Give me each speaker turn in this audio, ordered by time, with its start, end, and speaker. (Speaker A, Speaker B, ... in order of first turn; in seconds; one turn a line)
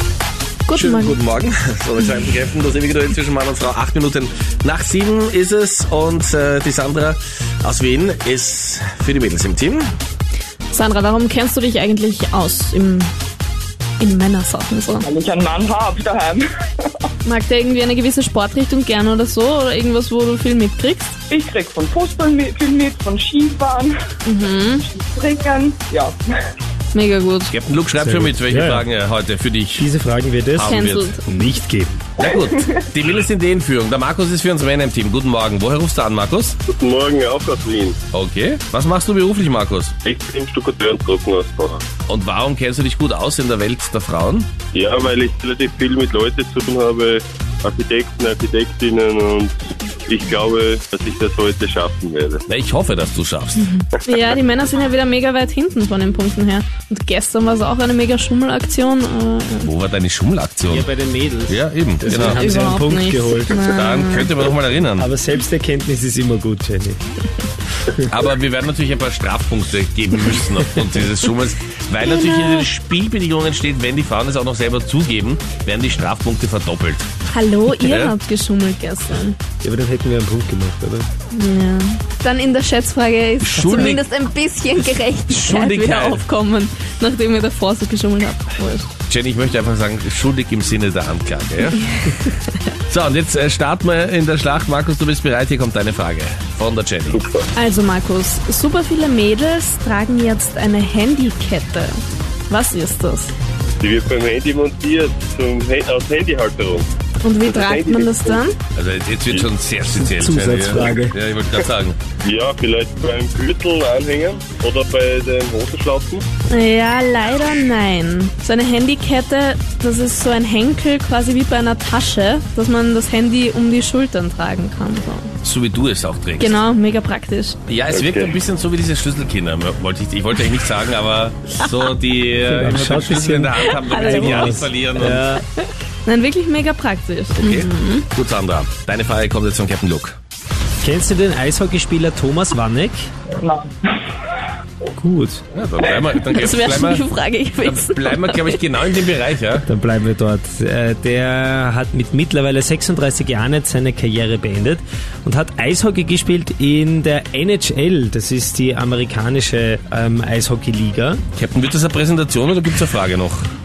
Speaker A: 0.7-1.2
Speaker B: 0.7-9.9
Speaker A: 10.7-13.1
Speaker A: 14.0-15.1
Speaker C: 15.0-17.0
Speaker A: 17.2-21.2
Speaker C: 21.3-23.9
Speaker A: 24.2-24.9
Speaker C: 24.7-26.1
Speaker A: 26.9-27.5
Speaker B: 27.5-29.9
Speaker D: 28.0-28.9
Speaker D: 29.8-32.1
Speaker B: 30.6-31.1
Speaker A: 30.6-31.2
Speaker B: 32.2-36.6
Speaker C: 32.2-32.6
Speaker E: 36.8-37.8
Speaker B: 38.1-40.0
Speaker E: 40.1-41.5
Speaker B: 42.0-44.5
Speaker E: 44.7-49.3
Speaker E: 50.1-52.4
Speaker B: 52.5-53.7
Speaker A: 53.6-59.7
Speaker B: 59.6-60.9
Speaker D: 60.6-63.7
Speaker B: 61.5-62.5
Speaker A: 62.0-64.3
Speaker B: 63.6-65.1
Speaker D: 65.0-67.0
Speaker B: 68.1-77.1
Speaker A: 72.0-72.7
Speaker A: 77.3-79.4
Speaker B: 77.8-78.1
Speaker D: 79.6-81.1
Speaker A: 81.3-88.9
Speaker B: 83.4-84.0
Speaker B: 85.3-86.2
Speaker B: 89.1-91.9
Speaker B: 92.9-97.2
Speaker E: 97.1-97.4
Speaker A: 97.5-102.0
Speaker A: 102.5-103.3
Speaker E: 103.8-106.8
Speaker A: 107.2-108.5
Speaker E: 107.5-108.4
Speaker B: 108.7-112.0
Speaker D: 109.9-111.2
Speaker E: 112.2-116.2
Speaker A: 116.5-125.3
Speaker B: 125.4-126.6
Speaker A: 126.4-127.6
Speaker B: 127.7-135.3
Speaker E: 127.9-128.3
Speaker D: 132.4-135.4
Speaker A: 133.6-134.6
Speaker A: 136.0-138.1
Speaker B: 137.3-140.2
Speaker D: 140.8-143.1
Speaker C: 143.4-144.0
Speaker D: 144.9-145.4
Speaker B: 145.5-147.1
Speaker A: 146.3-148.7
Speaker B: 147.6-149.7
Speaker D: 149.6-161.2
Speaker B: 161.3-163.5